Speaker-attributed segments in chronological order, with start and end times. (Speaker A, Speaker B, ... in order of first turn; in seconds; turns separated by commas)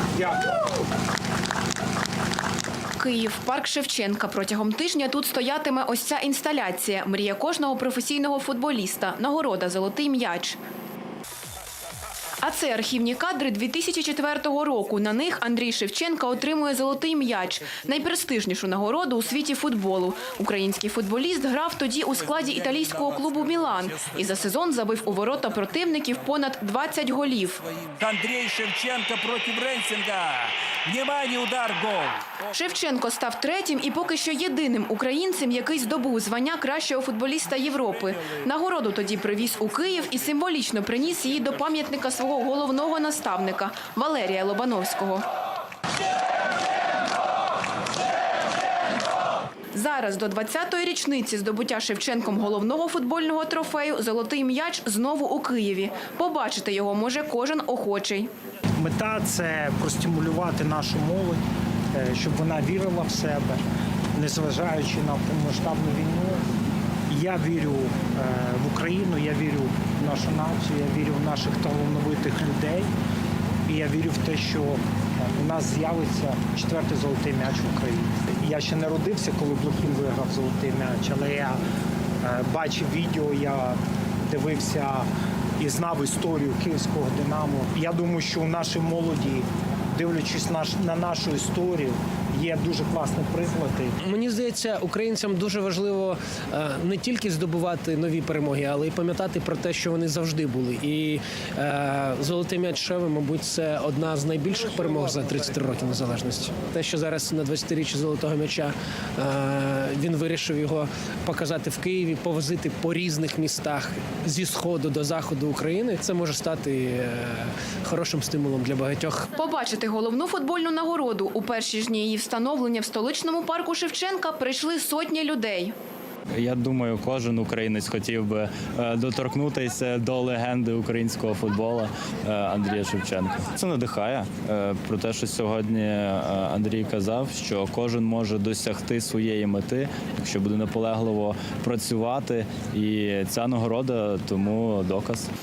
Speaker A: 3.0-10.6, Speaker A: 12.4-27.6, Speaker B: 27.9-32.4, Speaker A: 32.5-45.2, Speaker A: 49.7-58.3, Speaker C: 58.8-61.4, Speaker C: 61.9-63.6, Speaker C: 64.2-66.4, Speaker C: 67.1-72.9, Speaker C: 73.7-81.6, Speaker C: 82.2-85.1, Speaker C: 85.6-94.0, Speaker D: 94.0-119.3, Speaker A: 119.3-125.7, Speaker E: 126.3-145.3